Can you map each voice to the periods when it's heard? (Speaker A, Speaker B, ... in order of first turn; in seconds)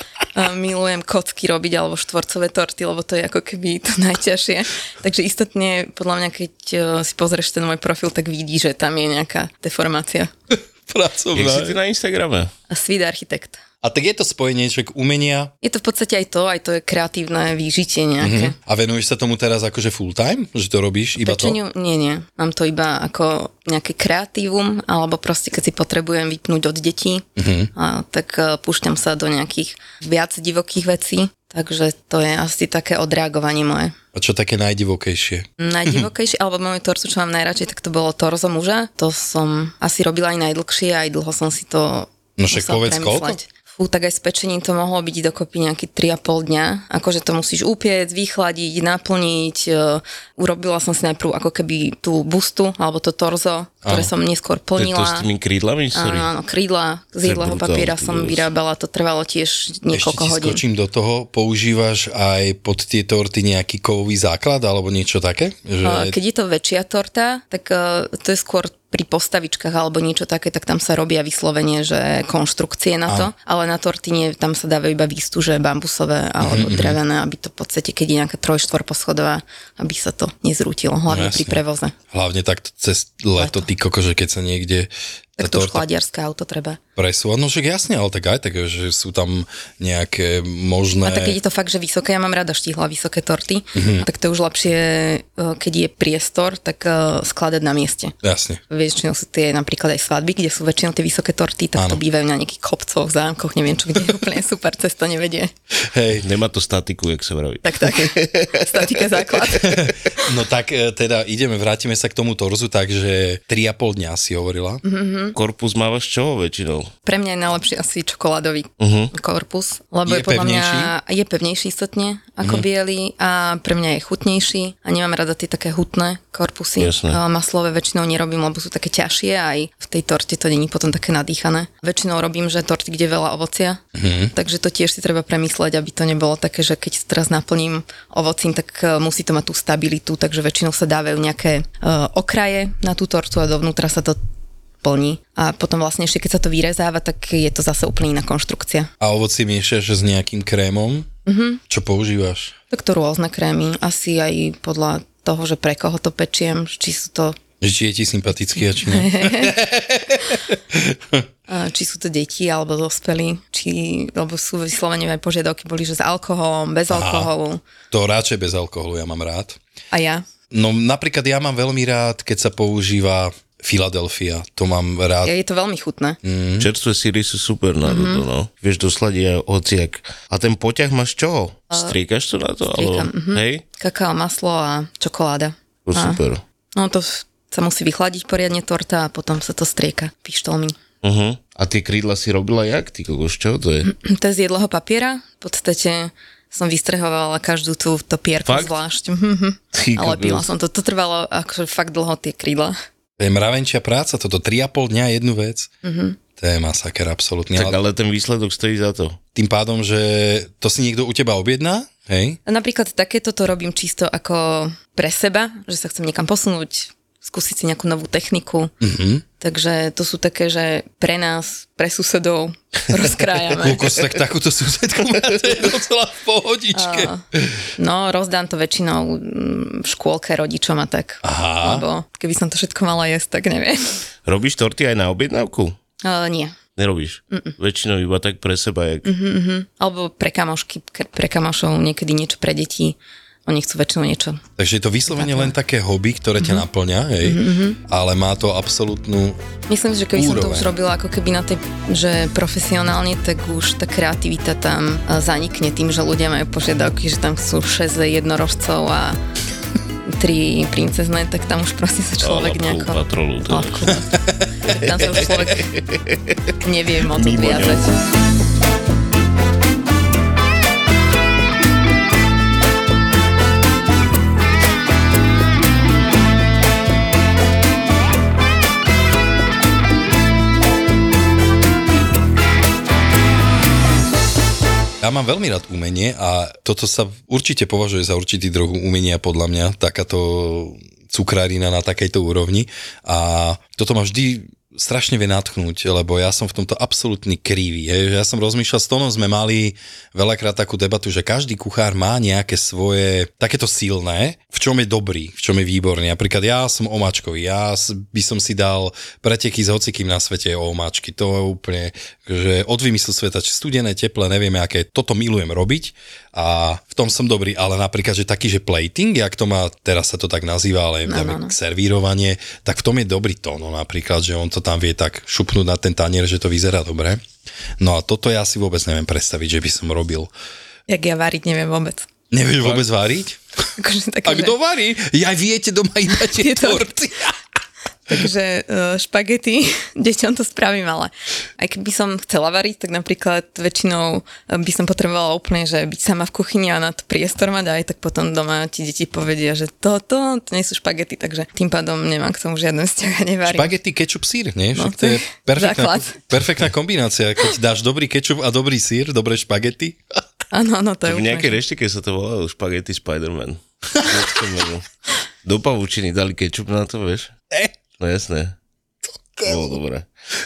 Speaker A: 0.3-10.3, 12.7-13.6, 15.6-18.6, 21.2-33.9, 35.6-55.3, 55.9-60.6, 65.8-81.9, 83.4-83.7, 85.4-86.8, 91.0-98.1, 98.7-105.5, 107.6-109.8, 114.8-115.3, 117.0-133.8, 134.3-144.2, 144.8-148.9, 151.2-151.6, 152.7-157.4, 158.8-159.5, 161.5-167.6, 169.9-170.2, 175.2-176.2, 177.8-178.2, 181.7-181.9, 182.7-186.2, 186.8-190.8, 193.8-202.7, 205.8-206.2, 212.4-218.7, 219.4-223.8, 226.7-227.2, 227.8-233.9, 236.0-236.6, 239.0-244.4, 245.1-245.5, 246.4-246.6, 247.2-247.8, 249.7-259.2, 260.1-265.7, 266.6-267.9, 321.1-321.5, 330.9-332.1, 333.8-334.6, 336.1-336.9, 338.1-353.7, 354.8-356.2, 360.5-361.6
Speaker B: 10.9-11.8, 13.8-15.5, 18.2-21.6, 27.4-27.7, 34.1-36.0, 42.4-43.4, 53.8-54.1, 59.9-66.1, 76.4-77.0, 81.1-85.8, 87.0-91.4, 93.7-94.0, 98.2-98.6, 105.9-106.2, 109.6-114.8, 120.0-120.9, 133.9-134.3, 149.0-151.1, 151.7-152.5, 157.6-161.2, 166.9-167.3, 167.9-169.6, 170.5-175.3, 176.2-176.7, 203.2-205.7, 206.4-207.8, 209.3-212.4, 218.8-219.2, 223.6-227.6, 231.2-231.8, 244.6-249.4, 250.1-250.7, 264.2-264.4, 285.0-327.2, 327.8-330.3, 332.3-333.4, 334.2-337.4, 353.4-360.0, 369.4-369.8
Speaker C: 11.3-12.5, 54.8-56.3, 57.2-58.5, 106.2-109.0, 115.3-116.9, 118.8-119.1, 126.8-127.2, 176.6-183.6, 185.8-186.4, 191.0-193.9, 199.7-200.5, 207.5-209.2, 234.2-235.8, 236.8-239.1, 262.2-263.9, 264.8-266.2, 267.1-267.8, 361.1-364.9, 365.4-367.3, 368.0-368.5, 369.4-370.1